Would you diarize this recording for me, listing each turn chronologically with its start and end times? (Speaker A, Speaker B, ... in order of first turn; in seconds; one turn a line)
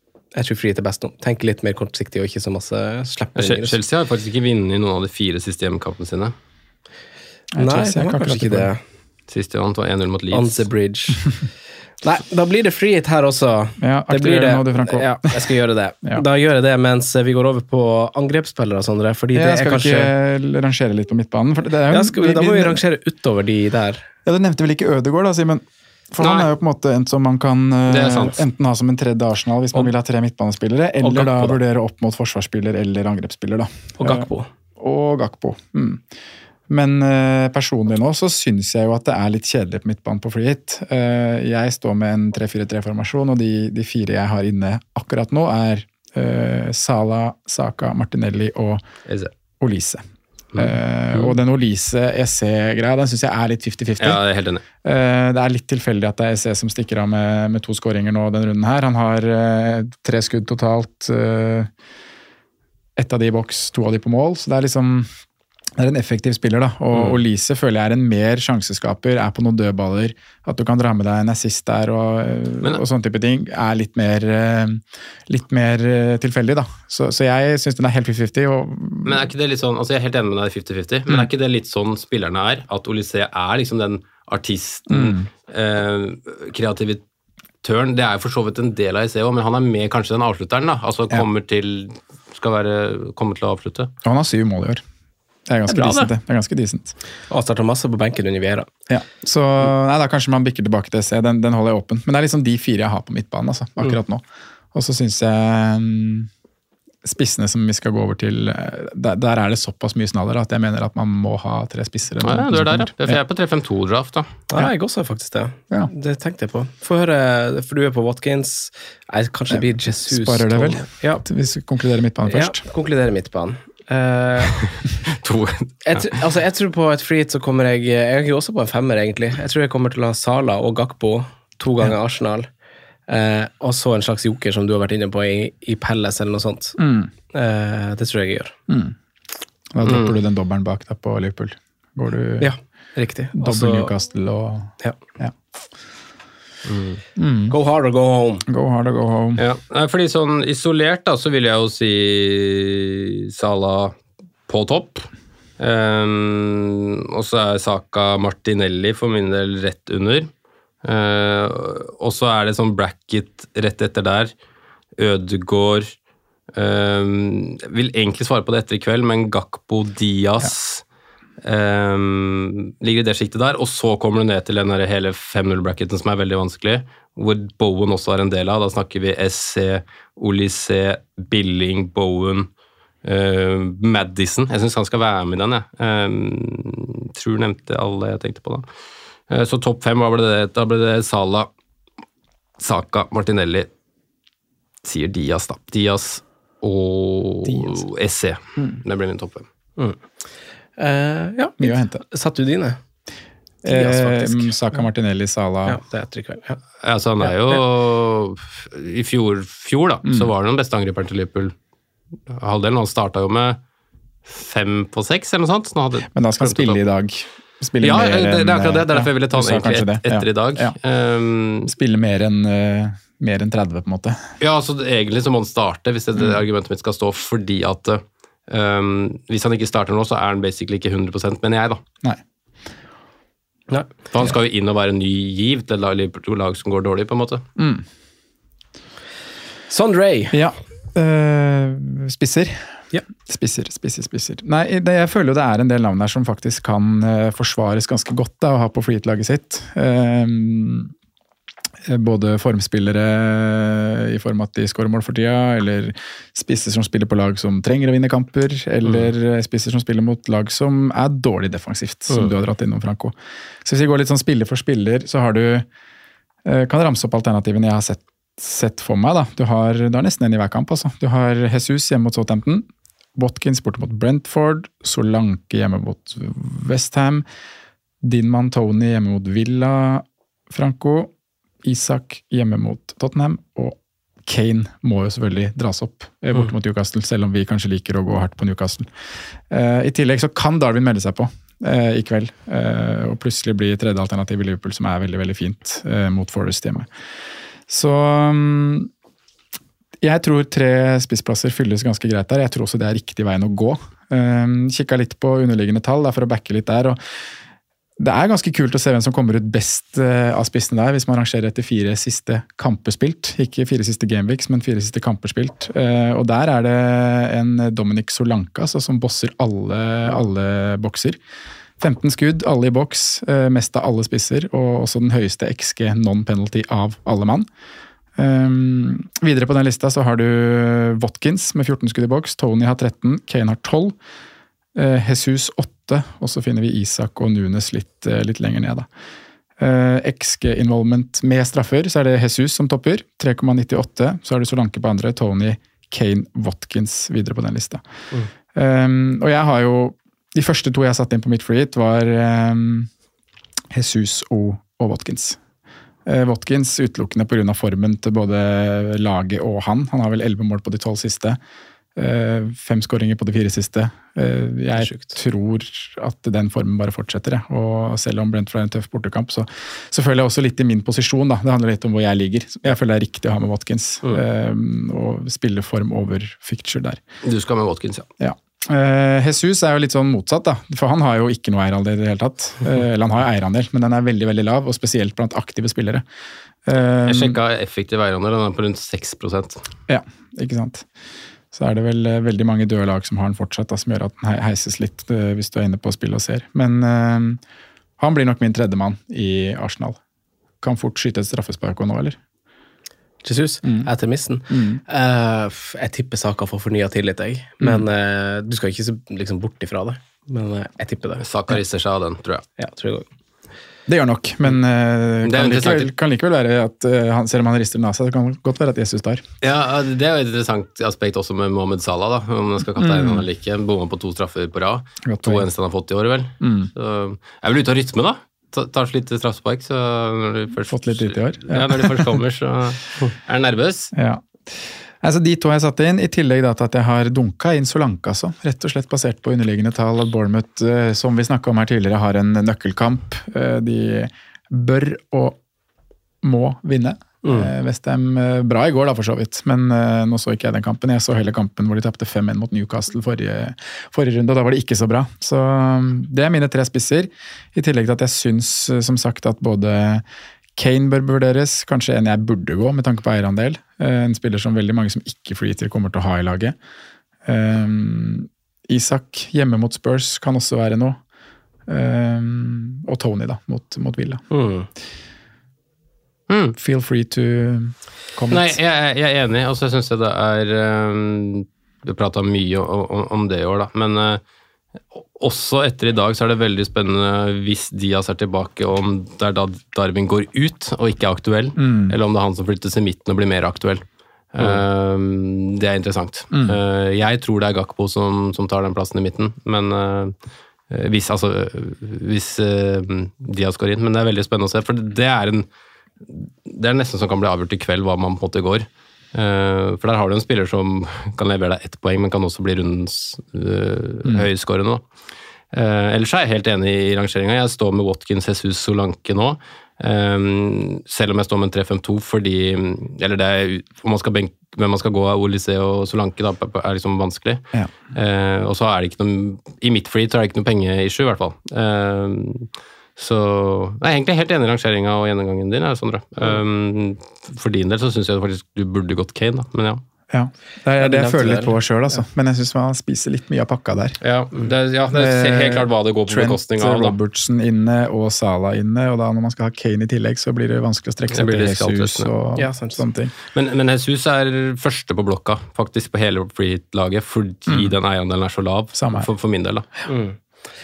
Speaker A: 0.3-3.8
Speaker B: 3.4-6.3
Speaker C: 7.5-8.7
Speaker A: 7.6-8.8
Speaker B: 9.3-10.7
Speaker A: 10.3-11.3
Speaker A: 12.0-20.1
Speaker C: 13.8-15.5
Speaker C: 19.3-22.8
Speaker A: 21.9-24.1
Speaker C: 24.2-34.3
Speaker B: 26.2-26.5
Speaker B: 27.9-28.4
Speaker A: 31.0-31.6
Speaker A: 34.0-34.5
Speaker C: 34.8-36.1
Speaker C: 36.7-48.8
Speaker C: 49.6-50.0
Speaker B: 50.5-51.4
Speaker C: 50.5-54.2
Speaker B: 54.0-54.6
Speaker C: 54.8-61.7
Speaker C: 63.0-65.1
Speaker C: 65.8-79.3
Speaker B: 79.0-87.0
Speaker C: 84.9-85.3
Speaker B: 87.6-93.9
Speaker C: 94.0-94.8
Speaker C: 95.5-97.0
Speaker B: 95.7-96.1
Speaker A: 97.3-98.7
Speaker C: 98.9-106.3
Speaker C: 107.0-113.2
Speaker B: 112.2-114.3
Speaker A: 114.5-121.2
Speaker C: 119.5-122.6
Speaker A: 122.3-124.6
Speaker B: 125.1-126.1
Speaker A: 125.8-132.5
Speaker A: 133.1-136.8
Speaker C: 136.8-137.1
Speaker A: 137.3-138.6
Speaker C: 138.7-138.9
Speaker C: 139.7-142.5
Speaker B: 139.8-140.1
Speaker A: 142.4-143.9
Speaker C: 143.3-145.3
Speaker B: 146.7-147.0
Speaker C: 147.2-147.6
Speaker A: 147.5-148.5
Speaker C: 148.5-149.4
Speaker B: 149.4-154.0
Speaker B: 154.5-160.3
Speaker B: 160.8-164.3
Speaker B: 165.0-165.9
Speaker B: 166.5-170.8
Speaker B: 171.4-182.5
Speaker B: 183.0-188.7
Speaker B: 189.3-191.5
Speaker B: 192.6-193.7
Speaker B: 194.8-199.4
Speaker C: 197.5-197.8
Speaker A: 200.8-202.8
Speaker C: 201.6-202.0
Speaker C: 203.6-205.8
Speaker A: 203.7-204.5
Speaker A: 205.7-206.6
Speaker B: 206.8-211.6
Speaker B: 212.3-213.6
Speaker B: 214.3-216.8
Speaker C: 216.1-220.8
Speaker B: 217.8-221.7
Speaker C: 221.7-224.2
Speaker B: 224.4-231.8
Speaker B: 234.1-237.4
Speaker C: 237.6-237.8
Speaker A: 239.7-240.4
Speaker C: 240.3-250.9
Speaker C: 251.8-265.7
Speaker C: 266.4-277.2
Speaker C: 278.0-281.1
Speaker C: 281.6-288.9
Speaker C: 289.5-296.9
Speaker C: 297.7-298.9
Speaker C: 300.0-307.0
Speaker C: 308.0-321.2
Speaker C: 321.8-327.5
Speaker C: 328.2-334.0
Speaker C: 334.8-338.9
Speaker C: 339.6-347.8
Speaker C: 348.5-352.9
Speaker C: 353.7-355.4
Speaker C: 356.1-361.4
Speaker C: 362.0-377.0
Speaker A: 364.8-365.1
Speaker B: 377.2-378.1
Speaker C: 378.2-386.0
Speaker C: 386.7-387.4
Speaker B: 387.1-389.6
Speaker C: 389.9-390.9
Speaker C: 391.5-397.4
Speaker C: 398.0-400.0
Speaker C: 400.6-402.2
Speaker A: 403.2-411.2
Speaker C: 403.6-403.9
Speaker C: 404.5-404.8
Speaker C: 407.6-407.9
Speaker B: 411.2-412.4
Speaker A: 412.6-413.1
Speaker C: 413.9-419.2
Speaker B: 415.2-415.9
Speaker B: 419.4-433.9
Speaker C: 422.8-423.3
Speaker C: 425.1-425.5
Speaker C: 426.4-426.7
Speaker C: 430.7-432.2
Speaker C: 433.9-445.4
Speaker C: 446.2-460.0
Speaker A: 447.2-447.5
Speaker C: 460.6-466.6
Speaker C: 467.3-471.0
Speaker C: 471.7-474.2
Speaker A: 474.3-474.7
Speaker B: 476.3-476.6
Speaker C: 476.6-478.6
Speaker B: 478.3-484.2
Speaker B: 484.9-500.1
Speaker C: 491.6-492.0
Speaker C: 496.3-496.6
Speaker B: 500.7-505.5
Speaker B: 506.1-514.8
Speaker B: 515.5-539.8
Speaker C: 540.1-544.0
Speaker A: 540.8-542.0
Speaker B: 544.0-547.0
Speaker C: 544.9-553.1
Speaker B: 551.1-552.1
Speaker A: 552.4-552.8
Speaker B: 553.3-559.7
Speaker C: 557.5-557.7
Speaker C: 558.8-559.1
Speaker A: 559.9-560.2